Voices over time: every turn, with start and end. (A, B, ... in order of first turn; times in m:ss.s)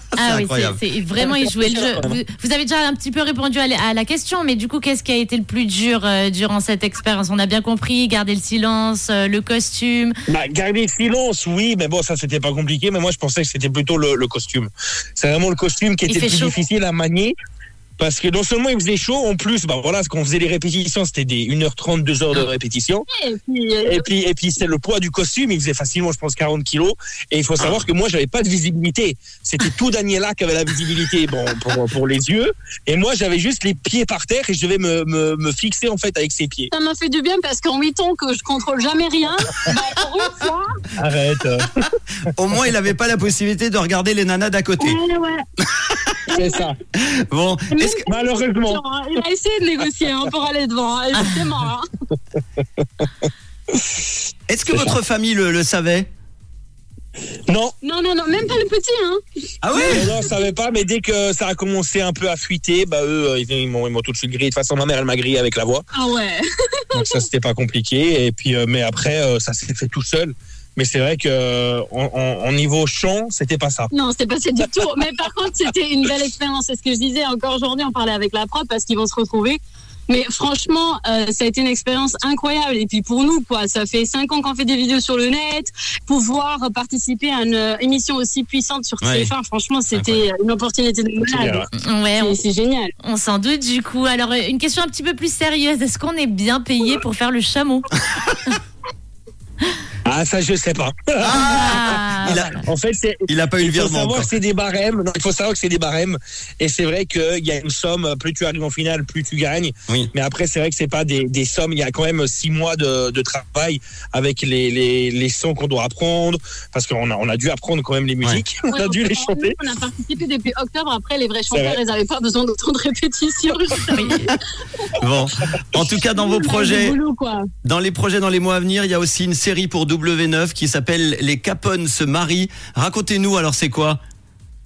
0:00.2-0:10.1 A
0:00.2-0:00.8 B
0:01.2-0:02.2 C
0:10.3-0:17.4 C
0:16.1-0:16.5 A
0:18.0-0:23.1 C
0:23.1-0:24.0 D
0:23.9-0:36.7 C
0:36.7-0:40.7 D
0:41.0-0:41.7 C
0:42.4-0:45.0 B
0:44.8-0:45.4 D
0:46.3-0:46.8 C
0:46.3-0:46.6 D
0:47.0-0:48.0 B
0:47.7-0:51.8 D
0:48.1-0:48.8 C
0:52.8-0:53.8 C
0:54.5-0:56.1 B
0:54.7-0:55.0 C
0:57.5-0:57.8 C
0:57.8-1:00.1 D
0:59.6-1:00.1 B
0:59.7-1:05.8 C
1:05.9-1:07.2 D
1:07.0-1:13.9 C
1:13.9-1:31.7 D
1:29.0-1:29.3 B
1:29.9-1:30.2 B
1:31.2-1:31.7 C
1:31.8-1:32.4 A
1:32.2-1:32.9 D
1:33.0-1:37.9 A
1:40.1-1:41.5 C
1:41.2-1:42.6 B
1:41.4-1:42.6 A
1:42.6-1:59.6 C
1:43.3-1:44.3 B
1:58.7-2:04.3 D
2:01.5-2:01.8 C
2:05.0-2:07.0 B
2:06.1-2:07.4 D
2:07.6-2:14.0 B